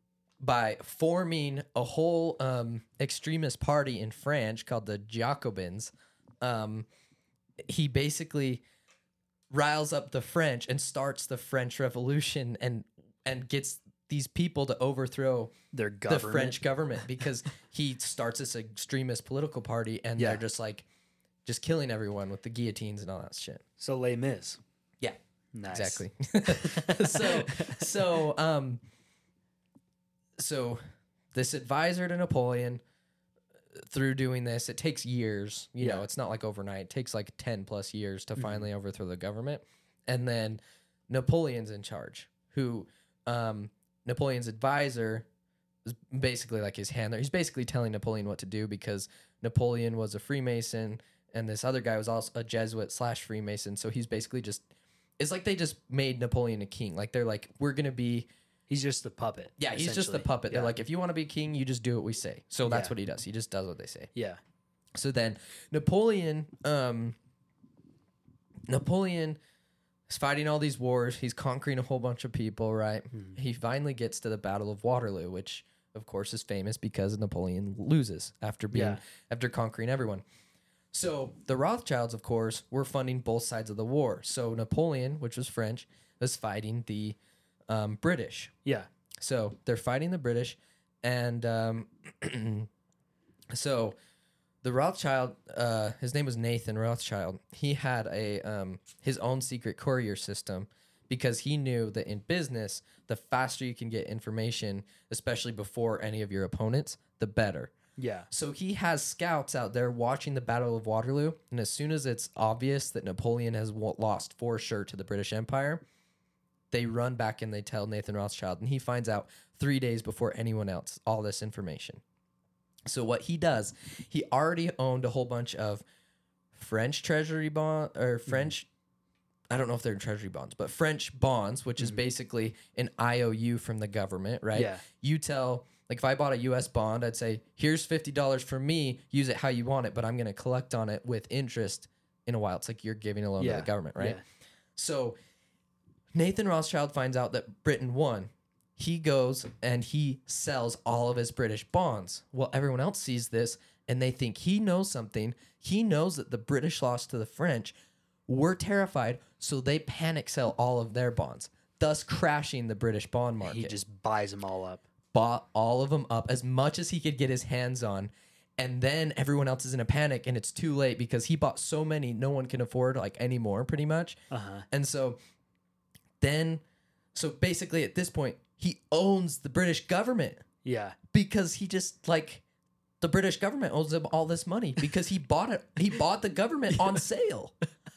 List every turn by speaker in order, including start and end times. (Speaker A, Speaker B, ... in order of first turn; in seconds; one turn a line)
Speaker A: 0.4-6.9
Speaker A: 7.7-8.6
Speaker A: 9.5-15.5
Speaker B: 15.7-17.1
Speaker A: 16.1-20.9
Speaker B: 20.2-20.4
Speaker A: 21.4-23.6
Speaker B: 23.8-24.6
Speaker B: 25.5-28.0
Speaker A: 25.7-28.8
Speaker A: 30.4-30.8
Speaker A: 31.3-32.8
Speaker A: 33.8-45.3
Speaker B: 35.8-36.0
Speaker B: 38.4-38.7
Speaker A: 45.9-54.7
Speaker A: 55.2-58.3
Speaker B: 58.7-60.7
Speaker A: 59.6-64.1
Speaker B: 62.7-62.9
Speaker A: 65.0-67.2
Speaker A: 68.7-69.4
Speaker A: 70.1-80.2
Speaker B: 78.7-79.0
Speaker A: 80.9-87.2
Speaker A: 87.7-88.5
Speaker A: 89.2-92.7
Speaker A: 93.5-94.0
Speaker A: 94.6-107.7
Speaker B: 108.0-108.3
Speaker A: 108.3-115.8
Speaker A: 116.7-122.0
Speaker A: 122.9-125.8
Speaker A: 126.5-128.7
Speaker A: 129.5-144.2
Speaker B: 134.6-134.8
Speaker B: 143.4-144.2
Speaker A: 144.8-145.2
Speaker A: 146.2-157.8
Speaker A: 158.3-163.8
Speaker B: 163.4-164.8
Speaker A: 165.1-174.2
Speaker B: 174.3-174.7
Speaker A: 174.7-175.2
Speaker A: 176.2-176.6
Speaker A: 177.2-180.4
Speaker B: 180.7-181.0
Speaker A: 181.1-182.4
Speaker A: 183.0-187.5